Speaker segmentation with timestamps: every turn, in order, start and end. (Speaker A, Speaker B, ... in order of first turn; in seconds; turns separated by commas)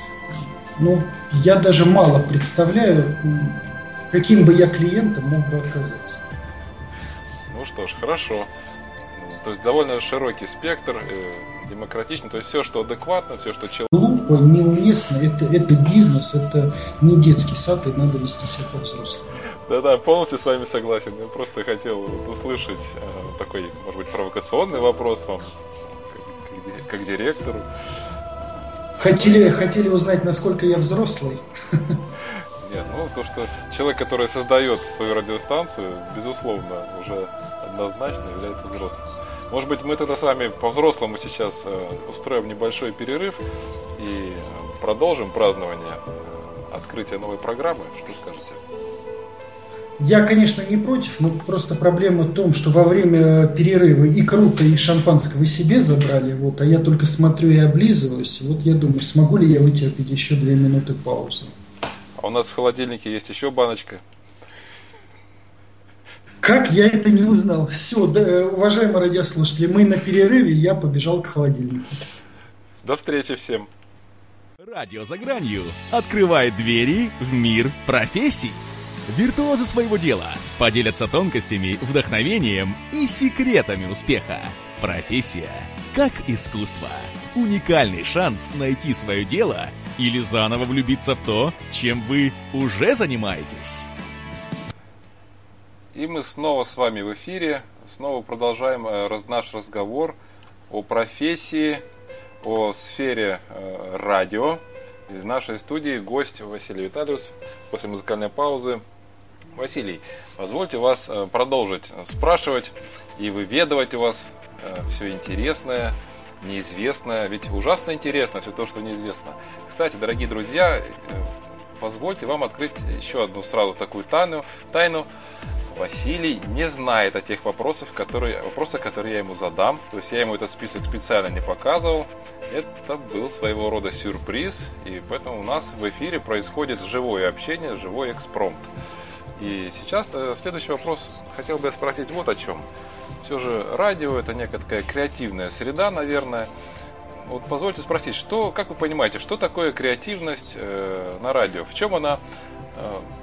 Speaker A: 0.8-6.2, Speaker B: 7.5-8.5, Speaker B: 9.1-13.9, Speaker A: 13.9-19.4, Speaker B: 19.6-27.7, Speaker A: 29.0-32.0, Speaker B: 32.6-43.4, Speaker B: 44.0-48.6, Speaker A: 50.0-61.5, Speaker B: 62.2-64.0, Speaker A: 66.4-72.0, Speaker B: 72.8-73.7, Speaker C: 74.6-78.6, Speaker C: 79.1-93.9, Speaker B: 95.9-100.2, Speaker B: 100.7-101.8, Speaker B: 102.4-108.8, Speaker B: 109.5-125.1, Speaker B: 125.7-138.7, Speaker B: 139.4-142.7, Speaker B: 143.2-146.5, Speaker B: 147.2-152.2, Speaker B: 152.7-153.1